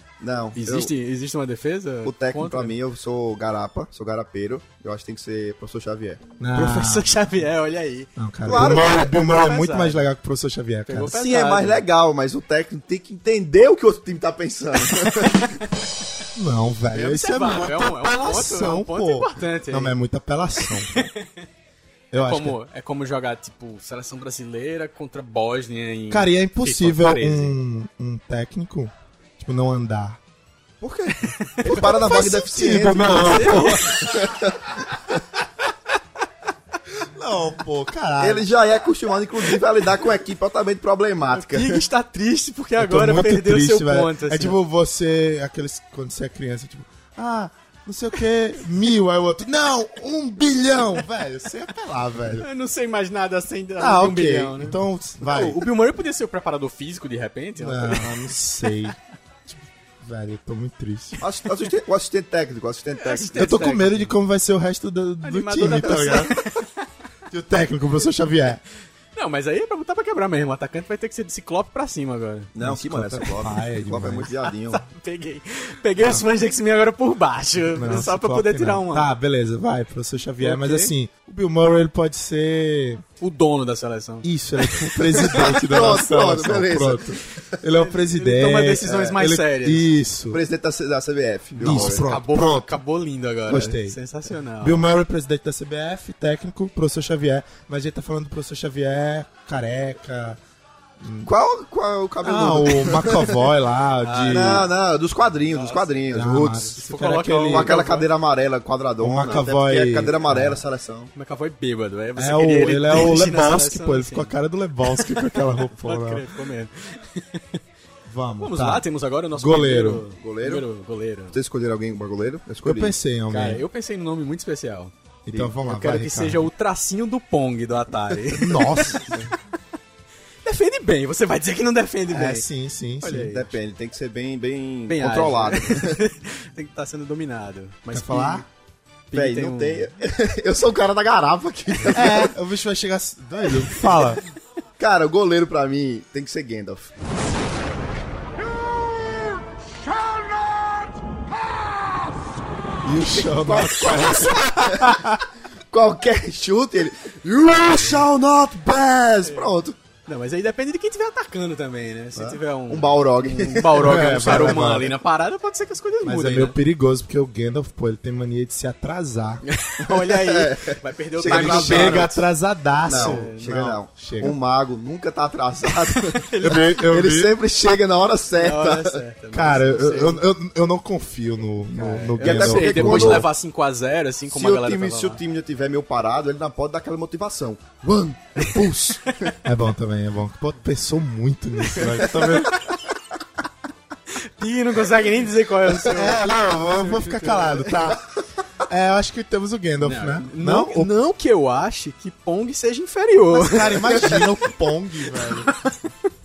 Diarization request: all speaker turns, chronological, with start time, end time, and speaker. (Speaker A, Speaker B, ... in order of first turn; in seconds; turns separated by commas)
Speaker A: 0.2-0.9, Speaker B: 0.5-2.7, Speaker A: 2.0-6.2, Speaker C: 6.4-7.2, Speaker B: 6.5-10.0, Speaker C: 8.2-11.2, Speaker A: 8.4-9.1, Speaker B: 10.9-11.8, Speaker A: 11.1-15.6, Speaker C: 16.3-21.1, Speaker B: 16.9-19.9, Speaker B: 20.9-21.3, Speaker C: 22.1-22.6, Speaker B: 22.1-27.6, Speaker C: 26.1-30.2, Speaker A: 30.8-34.8, Speaker B: 31.3-32.2, Speaker C: 31.8-34.1, Speaker B: 33.2-34.1, Speaker C: 36.9-38.5, Speaker A: 38.2-41.8, Speaker B: 41.3-44.5, Speaker C: 42.8-52.5, Speaker B: 52.4-58.1, Speaker C: 53.8-55.6, Speaker C: 57.6-61.2, Speaker A: 61.2-63.3, Speaker B: 62.9-64.1, Speaker C: 63.3-66.4, Speaker B: 65.2-66.7, Speaker C: 67.3-68.6, Speaker B: 69.1-72.5, Speaker A: 72.5-74.8, Speaker C: 72.6-74.3, Speaker B: 74.5-79.1, Speaker C: 77.7-83.0, Speaker B: 80.4-80.9, Speaker B: 83.2-85.5, Speaker C: 84.2-90.4, Speaker A: 85.2-87.6, Speaker B: 87.7-89.9, Speaker A: 88.8-89.2, Speaker A: 90.3-92.1, Speaker C: 91.6-92.8, Speaker B: 91.6-94.8, Speaker C: 93.5-94.0, Speaker C: 94.6-100.4, Speaker C: 101.0-101.3, Speaker A: 101.2-103.5, Speaker C: 102.2-104.7, Speaker B: 104.0-104.7, Speaker A: 104.3-106.7, Speaker B: 105.5-108.1, Speaker C: 106.1-107.7, Speaker A: 107.5-111.1, Speaker C: 109.0-110.6, Speaker B: 111.1-114.3, Speaker C: 112.2-116.2, Speaker B: 114.9-117.6, Speaker C: 118.0-120.0, Speaker B: 118.4-121.4, Speaker A: 120.2-120.7, Speaker A: 121.3-122.9, Speaker C: 122.6-123.6, Speaker B: 123.3-124.9, Speaker C: 125.2-126.5, Speaker B: 125.6-129.2, Speaker C: 128.3-129.1, Speaker B: 130.4-132.4, Speaker C: 132.1-133.4, Speaker B: 133.0-133.4, Speaker A: 133.1-136.0, Speaker B: 134.9-138.4, Speaker C: 137.9-138.4, Speaker B: 139.1-139.9, Speaker A: 139.1-142.3, Speaker C: 141.9-144.2, Speaker A: 144.8-146.9, Speaker A: 148.5-150.9, Speaker A: 151.4-152.0, Speaker C: 152.8-155.2, Speaker A: 153.0-155.0, Speaker A: 155.7-159.8, Speaker B: 159.2-159.5, Speaker B: 160.1-166.6, Speaker A: 162.2-164.6, Speaker C: 163.7-164.9, Speaker C: 166.0-169.4, Speaker B: 169.4-172.2, Speaker A: 169.8-172.2, Speaker C: 171.2-174.3, Speaker A: 172.8-176.2, Speaker B: 172.9-173.5, Speaker B: 175.9-176.8, Speaker C: 176.4-177.3, Speaker A: 176.8-179.0, Speaker B: 178.4-180.2, Speaker C: 179.3-183.3, Speaker B: 181.7-185.2, Speaker A: 182.2-183.3, Speaker A: 184.3-189.3, Speaker C: 189.4-192.6, Speaker B: 191.7-192.7, Speaker B: 194.1-196.2, Speaker C: 195.8-198.1, Speaker B: 196.8-197.7, Speaker C: 198.7-200.9, Speaker B: 199.8-204.3, Speaker C: 203.3-205.5, Speaker B: 205.2-205.7